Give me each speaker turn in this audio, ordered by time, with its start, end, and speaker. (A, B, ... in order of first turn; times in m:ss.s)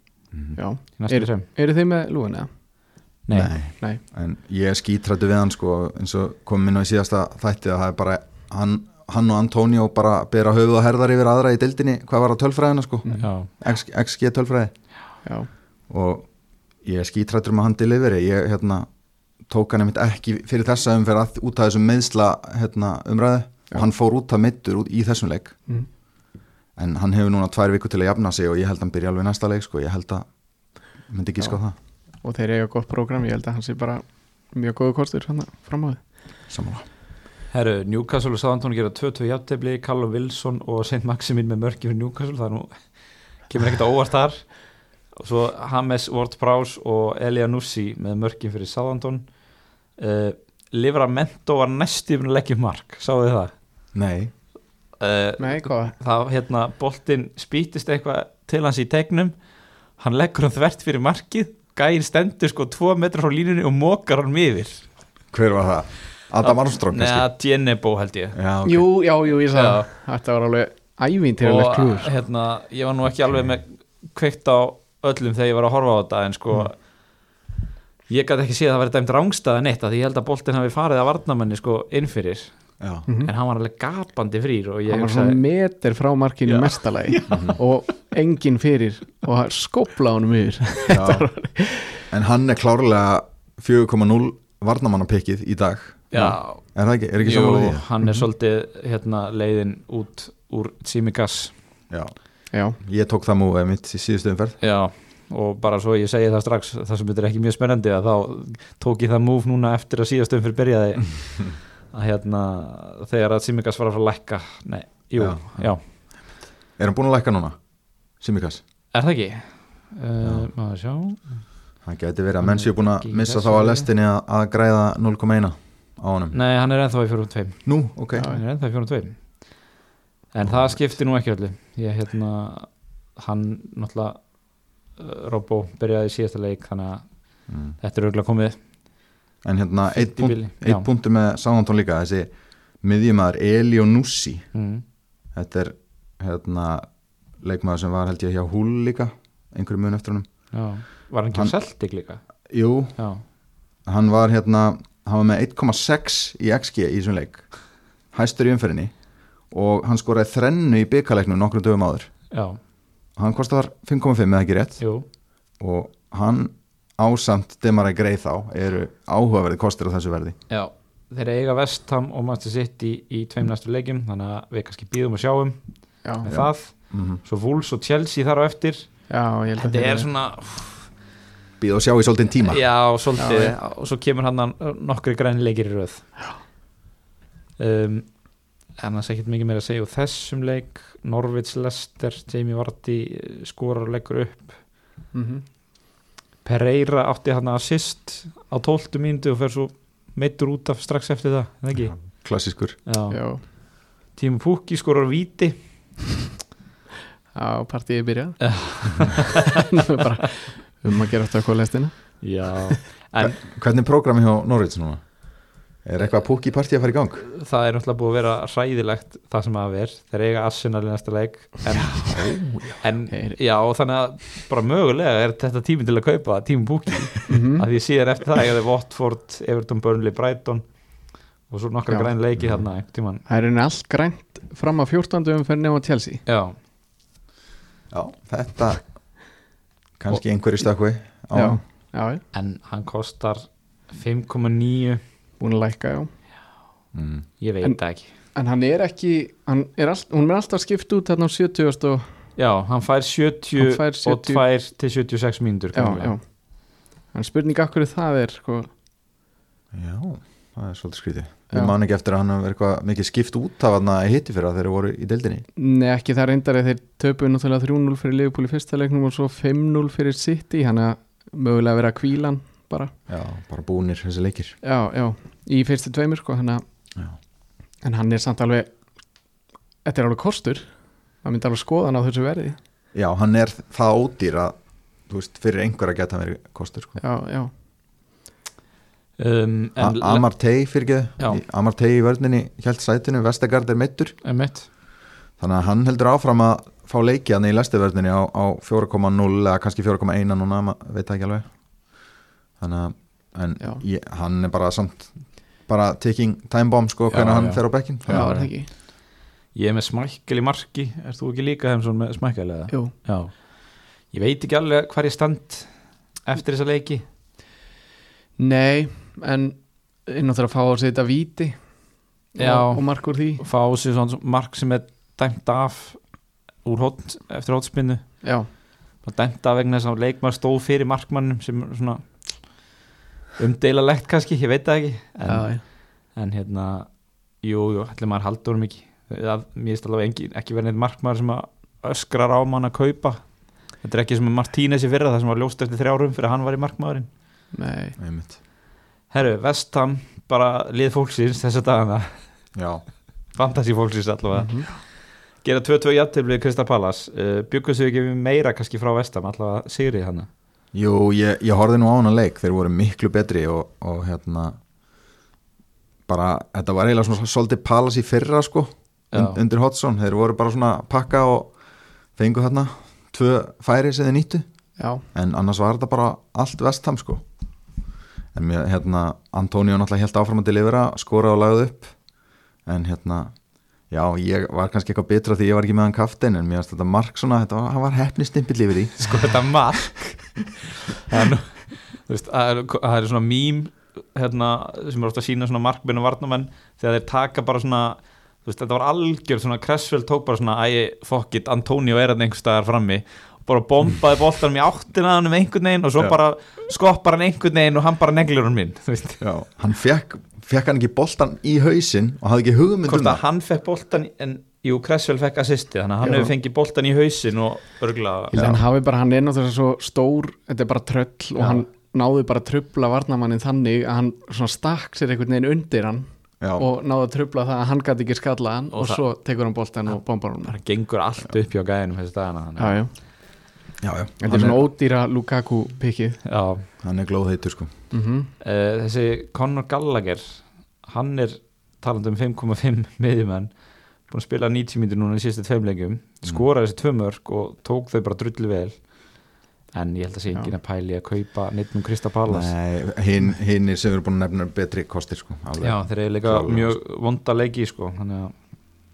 0:00.3-0:00.6 A
0:00.6-0:03.0 B
0:00.9-0:01.5 C
0:03.3-0:03.5 C
0:03.3-0:14.7 A
0:13.2-0:13.5 C
0:15.2-0:15.5 B
0:15.9-0:18.9 A
0:19.4-0:25.6 A
0:26.8-0:31.8 A
0:31.4-0:31.7 B
0:32.2-0:36.1 B
0:36.5-0:36.8 A
0:37.5-0:53.6 C
0:53.9-0:54.3 A
0:55.0-1:04.9 C
0:55.4-0:56.0 B
1:05.3-1:07.3 A
1:06.4-1:08.4 C
1:08.3-1:08.9 A
1:08.6-1:12.1 B
1:09.5-1:09.9 C
1:11.4-1:16.9 C
1:18.1-1:25.4 C
1:22.8-1:23.1 A
1:24.9-1:32.1 B
1:26.5-1:27.6 C
1:27.3-1:27.6 A
1:30.9-1:31.3 A
1:32.1-1:37.8 A
1:36.1-1:41.6 C
1:41.9-1:44.6 A
1:42.5-1:42.8 B
1:44.6-1:55.8 C
1:55.2-1:58.6 A
1:58.9-2:01.5 C
2:00.2-2:00.5 A
2:01.8-2:06.4 A
2:02.4-2:03.9 C
2:06.3-2:09.8 C
2:07.6-2:08.3 A
2:08.1-2:08.4 B
2:10.3-2:19.0 C
2:10.4-2:11.0 A
2:17.5-2:17.8 A
2:19.4-2:24.5 A
2:19.9-2:20.9 C
2:24.5-2:24.8 C
2:25.3-2:30.5 A
2:30.5-2:32.2 C
2:32.5-2:33.3 A
2:33.0-2:33.2 C
2:33.8-2:42.3 A
2:42.3-2:42.6 C
2:43.2-2:50.4 A
2:44.8-2:45.1 C
2:50.5-3:00.9 C
2:56.0-2:56.3 B
2:56.2-2:57.2 A
2:59.1-3:00.1 B
3:01.6-3:02.9 A
3:02.5-3:06.1 C
3:03.2-3:03.6 B
3:07.6-3:14.6 C
3:15.1-3:15.5 B
3:16.4-3:22.2 C
3:21.7-3:22.8 A
3:22.8-3:25.9 C
3:23.1-3:23.4 B
3:27.3-3:32.7 B
3:28.4-3:29.5 C
3:32.2-3:33.4 C
3:33.2-3:37.2 A
3:37.3-3:42.2 C
3:41.9-3:42.8 A
3:42.8-3:53.2 C
3:43.1-3:43.4 B
3:47.3-3:47.6 B
3:52.4-3:52.6 A
3:53.3-3:56.2 B
3:56.3-3:56.6 C
3:57.9-3:59.2 A
4:00.0-4:01.6 A
4:01.3-4:02.2 B
4:02.3-4:05.0 C
4:05.4-4:06.1 B
4:06.9-4:07.3 A
4:07.4-4:08.1 C
4:07.6-4:12.2 B
4:12.4-4:16.2 C
4:13.6-4:14.4 B
4:15.7-4:18.7 B
4:19.7-4:25.4 A
4:25.6-4:32.9 B
4:33.1-4:34.6 A
4:34.6-4:36.6 B
4:37.8-4:38.8 B
4:39.8-4:42.6 B
4:42.9-4:47.0 A
4:47.0-4:47.5 B
4:49.2-4:50.4 C
4:49.8-4:54.2 A
4:54.2-4:54.7 C
4:55.4-5:08.3 A
5:07.1-5:08.9 C
5:08.1-5:08.7 B
5:09.5-5:17.0 C
5:12.7-5:12.9 B
5:18.4-5:23.4 B
5:22.4-5:28.4 C
5:28.2-5:28.5 B
5:29.0-5:32.6 C
5:33.4-5:47.1 C
5:35.2-5:35.6 B
5:47.5-5:48.0 B
5:48.0-5:48.4 A
5:49.1-5:52.5 C
5:52.6-5:52.9 A
5:53.3-6:00.3 C
5:54.3-5:54.7 B
6:00.7-6:04.6 A
6:06.1-6:11.6 A
6:09.1-6:09.4 C
6:12.1-6:14.5 A
6:14.8-6:15.0 B
6:15.1-6:17.2 A
6:18.3-6:22.0 A
6:22.6-6:29.5 A
6:29.0-6:30.5 C
6:31.1-6:49.2 C
6:49.2-6:53.2 A
6:52.9-6:58.3 C
6:56.0-6:56.3 B
6:58.3-7:10.6 B
6:58.3-6:58.6 A
7:06.4-7:06.7 A
7:08.7-7:09.1 C
7:09.9-7:12.8 C
7:12.6-7:13.5 B
7:13.8-7:14.6 A
7:14.2-7:16.2 B
7:16.3-7:16.7 C
7:16.8-7:17.7 A
7:17.9-7:18.3 B
7:18.4-7:32.5 C
7:32.3-7:36.8 A
7:35.6-7:38.3 C